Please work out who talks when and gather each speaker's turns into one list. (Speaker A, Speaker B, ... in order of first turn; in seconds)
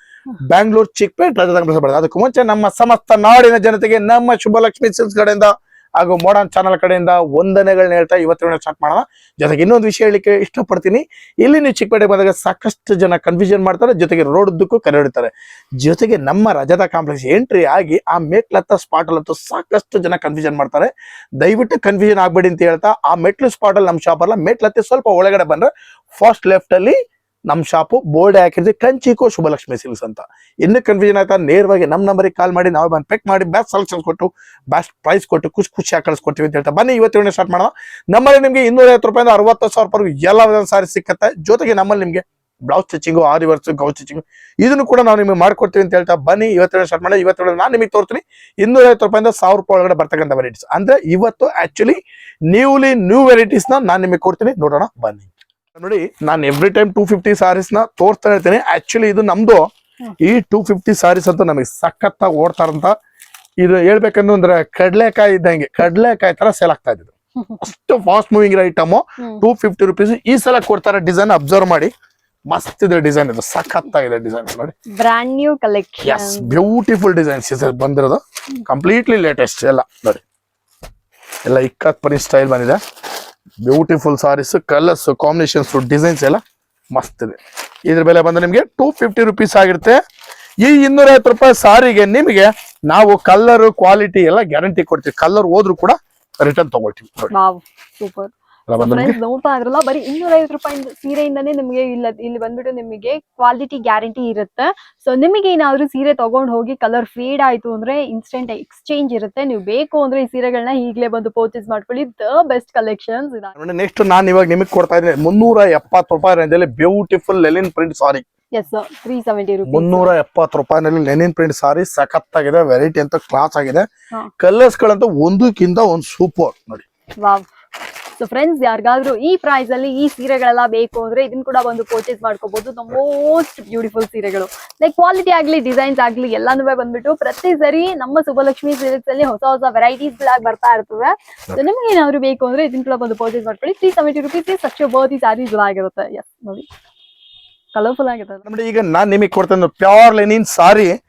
Speaker A: 0.4-27.0, 27.5-59.6, 60.2-62.9, 63.6-71.9, 72.5-74.7, 76.0-80.2, 81.4-82.8, 83.6-86.4, 86.9-90.0, 90.6-97.3, 98.7-99.2, 113.5-118.2, 119.7-123.9, 124.4-126.8, 148.4-150.9
Speaker B: 67.4-67.6, 74.9-76.6, 97.3-113.5, 118.5-120.1, 127.2-127.5, 128.2-146.7, 147.7-148.4